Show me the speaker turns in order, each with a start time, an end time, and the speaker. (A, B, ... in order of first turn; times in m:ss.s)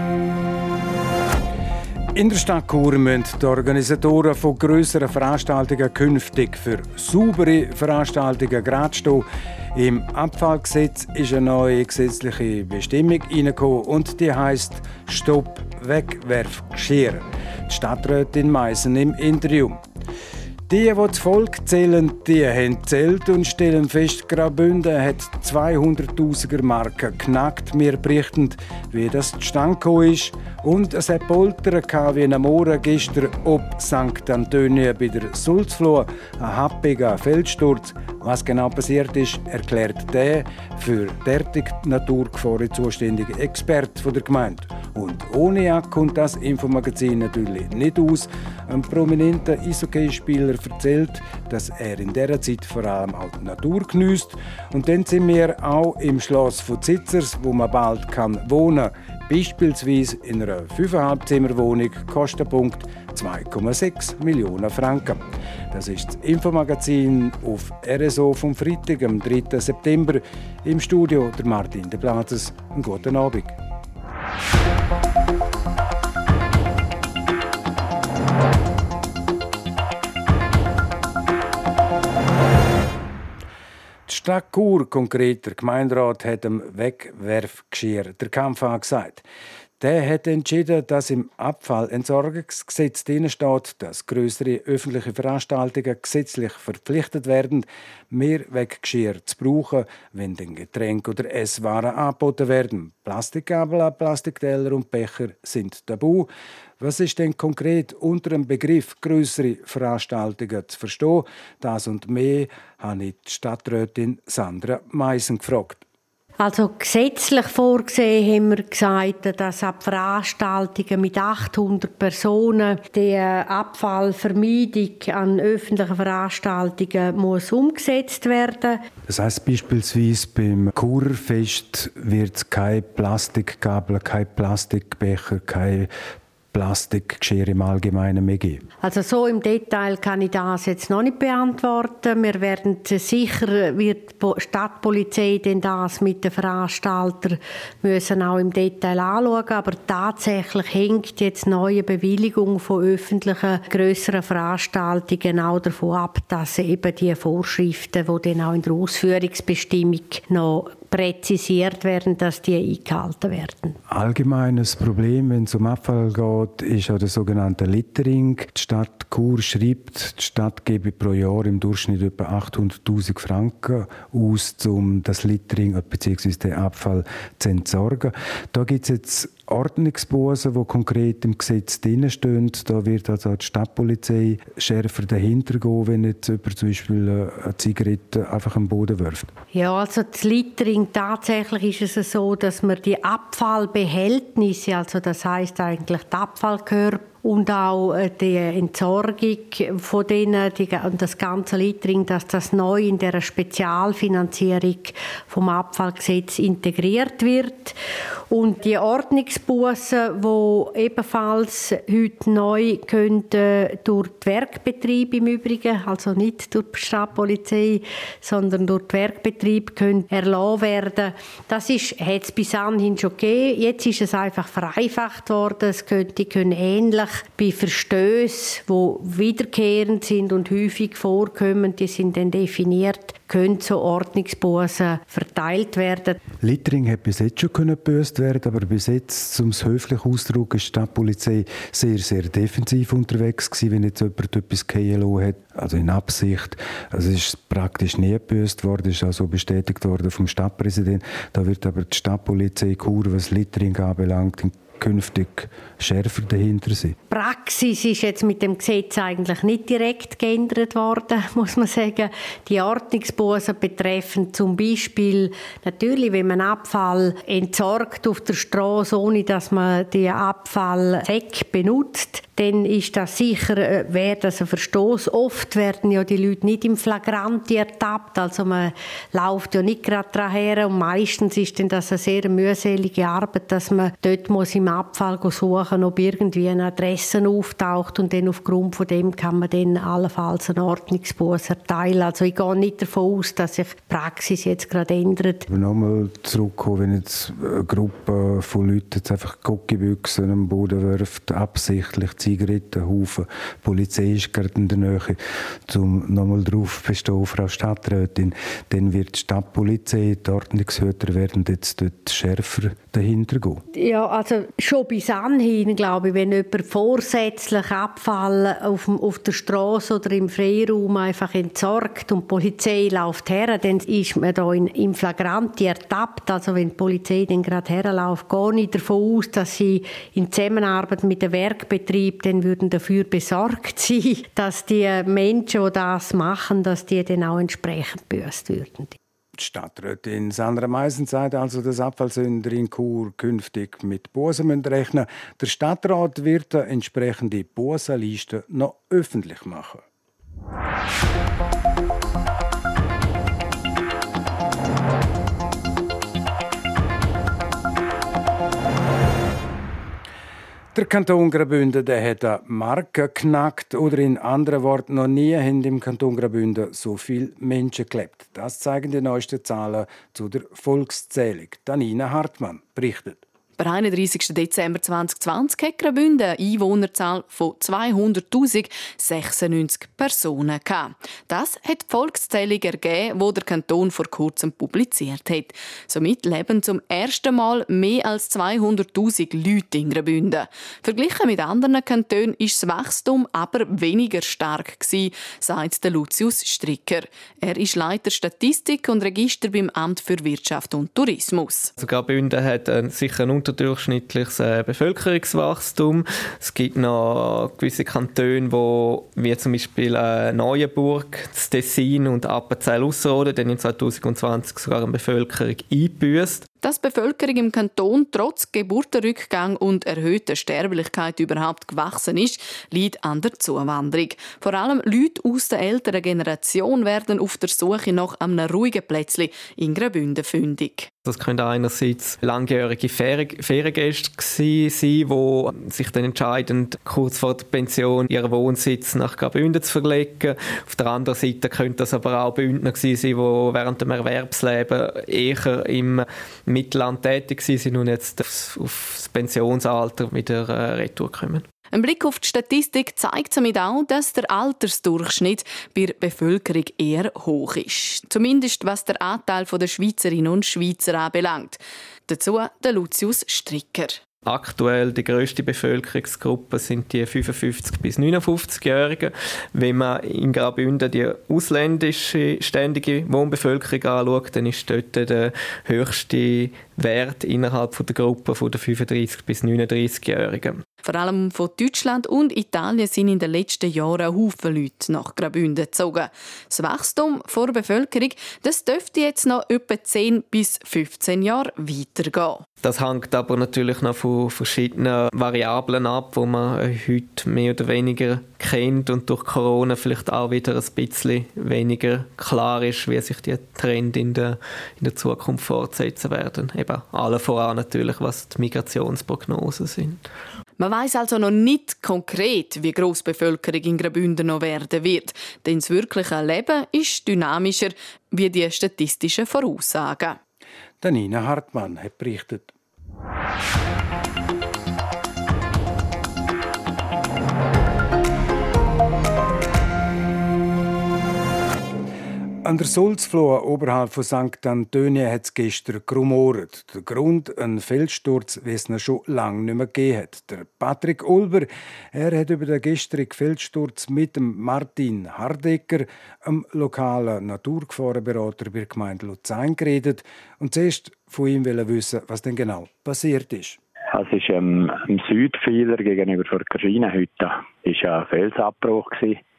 0:02.1-0:19.8 A
0:20.7-1:13.6 A
1:24.1-1:29.2 A
1:29.8-1:55.8 A
1:56.4-2:08.8 B
2:09.1-2:15.9 A
2:16.5-2:18.6 A
2:18.8-2:43.8 B
2:43.9-3:09.3 A
3:09.5-3:27.8 B
3:28.3-3:56.2 B
3:56.4-4:17.0 A
4:17.1-4:55.4 B
4:55.5-5:13.6 A
5:13.7-5:39.0 B
5:39.3-5:49.8 A
6:00.7-6:13.2 A
6:13.6-6:41.7 C
6:41.8-6:56.5 D
6:56.6-7:10.9 C
7:11.0-7:31.5 D
7:31.7-7:44.0 C
7:44.2-8:00.6 D
8:00.8-8:12.4 C
8:12.6-8:30.0 D
8:30.6-8:40.2 C
8:40.8-8:42.5 A
8:52.4-9:13.6 A
9:13.9-9:19.2 E